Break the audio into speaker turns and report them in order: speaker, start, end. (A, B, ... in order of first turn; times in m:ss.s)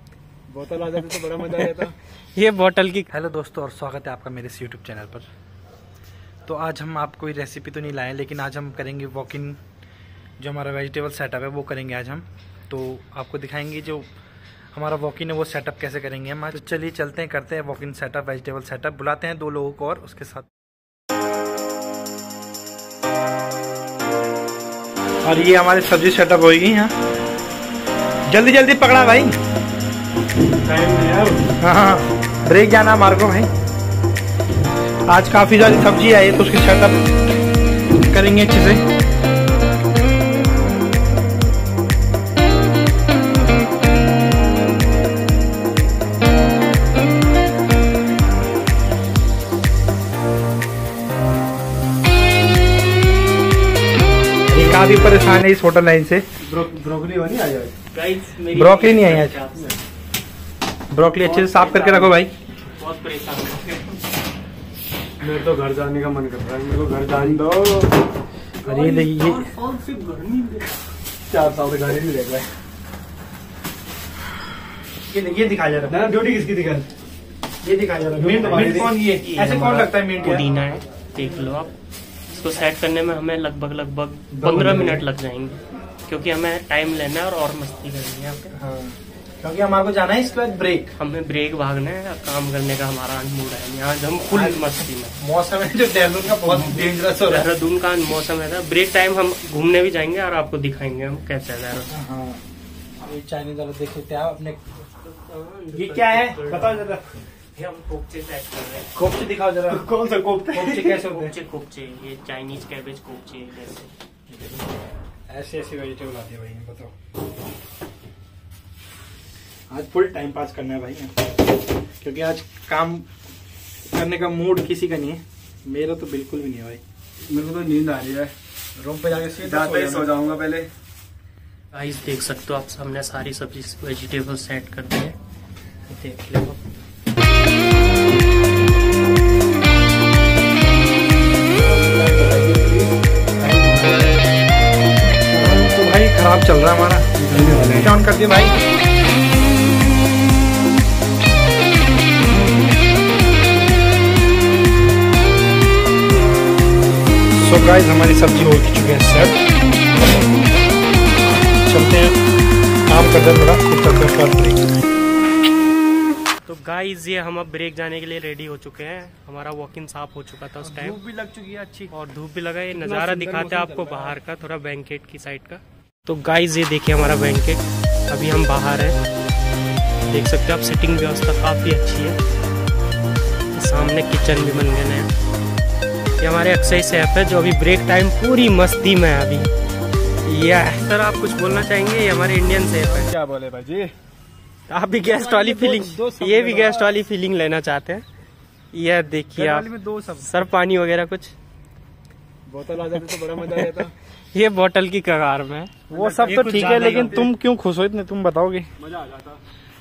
0:00.5-0:01.9 A
0:02.3-0:03.1 B
0:03.1-0:05.2 C
0:06.4-0:09.6 C
0:10.4-0:14.1 C
0:14.7-0:20.5 C
0:25.2-0:26.9 C
0:28.3-0:29.3 C
0:30.6-0:31.5 A
0:31.6-0:33.5 C
0:35.1-0:37.0 C
0:37.9-0:38.8 C
0:54.5-0:56.2 C
0:56.4-0:57.7 A
0:57.9-0:59.7 B
0:58.5-0:59.4 C
1:00.9-1:02.3 C
1:01.2-1:02.1 B
1:02.7-1:03.9 B
1:05.2-1:08.0 A
1:08.6-1:09.5 C
1:08.7-1:10.7 B
1:11.3-1:12.5 A
1:15.1-1:16.0 C
1:15.9-1:16.9 A
1:17.6-1:20.4 C
1:18.1-1:19.0 A
1:18.5-1:21.7 B
1:22.3-1:28.5 B
1:24.3-1:25.0 C
1:28.5-1:30.9 C
1:31.0-1:35.1 B
1:34.3-1:37.5 C
1:37.2-1:41.9 B
1:41.9-1:42.4 C
1:43.0-1:44.6 C
1:44.9-1:46.8 B
1:45.7-1:47.1 A
1:47.5-1:48.9 B
1:48.9-1:49.8 C
1:49.7-1:50.9 A
1:50.5-1:51.3 C
1:50.9-1:53.9 B
1:55.3-1:56.9 C
1:59.7-2:01.1 C
2:02.0-2:03.1 C
2:03.9-2:06.8 C
2:07.2-2:08.3 A
2:08.8-2:10.2 C
2:09.4-2:10.7 A
2:11.7-2:15.1 B
2:15.9-2:16.6 B
2:21.6-2:24.2 A
2:25.3-2:25.8 A
2:25.3-2:27.1 C
2:27.2-2:27.9 A
2:27.8-2:28.5 C
2:37.4-2:39.5 C
2:41.6-2:42.2 C
2:42.9-2:44.7 C
2:46.4-2:51.0 B
2:50.6-2:51.0 C
2:51.0-2:51.8 A
2:51.9-2:59.0 B
2:52.7-2:54.2 A
3:00.0-3:02.2 B
3:03.5-3:05.1 B
3:06.2-3:09.5 B
3:10.2-3:13.1 B
3:12.8-3:13.9 A
3:14.7-3:18.0 B
3:15.2-3:15.6 C
3:15.3-3:17.0 A
3:18.7-3:21.3 B
3:19.3-3:20.3 C
3:22.5-3:23.9 A
3:24.3-3:25.7 B
3:25.9-3:27.3 A
3:25.9-3:28.7 C
3:26.2-3:27.2 B
3:28.8-3:29.4 A